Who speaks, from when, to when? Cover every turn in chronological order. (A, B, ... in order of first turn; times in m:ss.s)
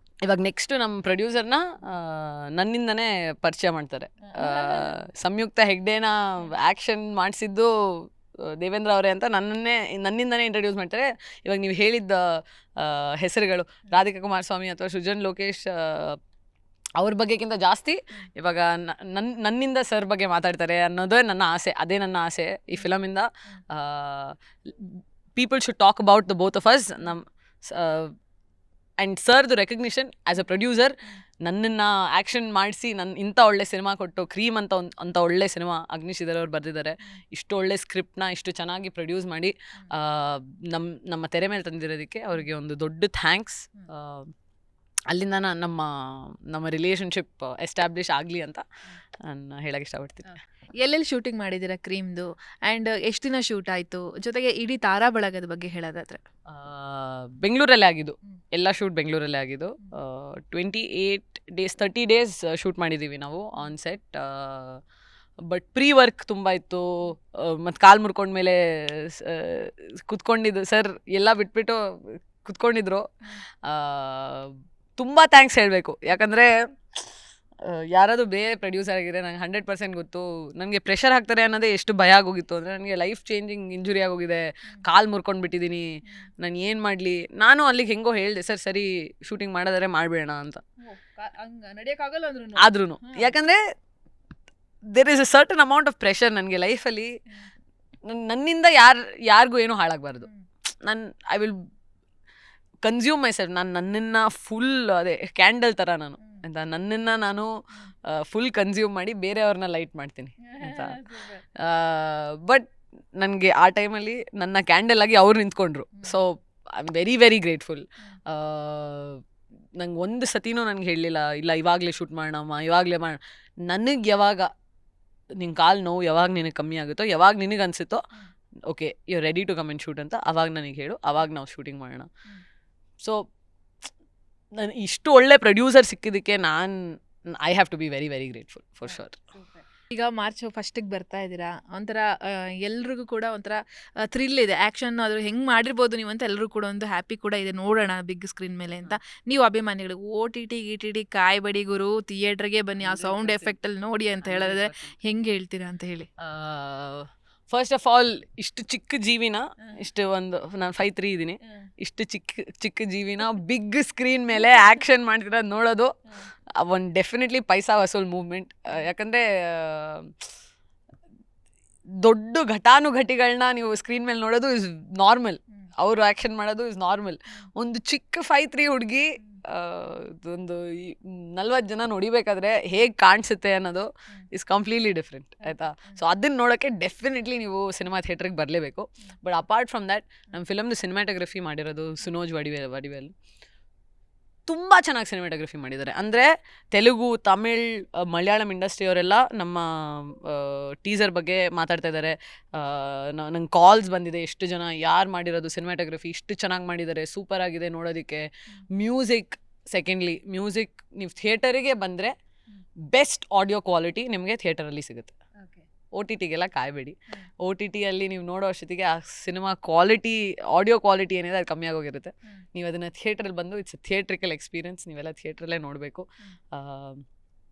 0:00.2-0:16.2 A
0:04.3-0:04.9 B
0:17.0-0:28.1 A
0:29.0-0:44.3 A
0:45.1-0:48.6 A
0:49.2-0:50.3 A
0:50.8-0:56.2 B
0:56.5-1:04.8 A
1:05.5-1:11.8 A
1:12.4-1:13.0 A
1:13.6-1:16.5 A
1:17.6-1:25.9 A
1:26.4-1:30.6 A
1:30.8-1:33.4 B
1:32.6-1:33.6 A
1:34.9-1:37.1 A
1:38.1-1:40.3 A
1:40.2-1:40.5 B
1:40.8-1:41.6 A
1:42.8-1:47.5 A
1:46.2-1:46.4 B
1:48.1-1:51.0 A
1:50.4-1:51.4 B
1:51.6-1:52.6 A
1:53.2-1:59.2 A
1:55.9-1:56.2 B
1:59.8-2:04.5 A
2:05.4-2:08.0 A
2:08.7-2:12.1 A
2:14.6-2:19.2 A
2:18.8-2:36.1 B
2:32.8-2:33.5 A
2:34.2-2:34.9 A
2:36.2-2:45.9 A
2:41.4-2:41.7 B
2:44.3-2:44.8 B
2:46.6-2:50.1 A
2:52.0-3:13.1 A
3:05.4-3:06.0 B
3:14.5-3:32.1 A
3:32.9-3:35.1 A
3:35.4-3:35.7 B
3:35.9-3:47.0 A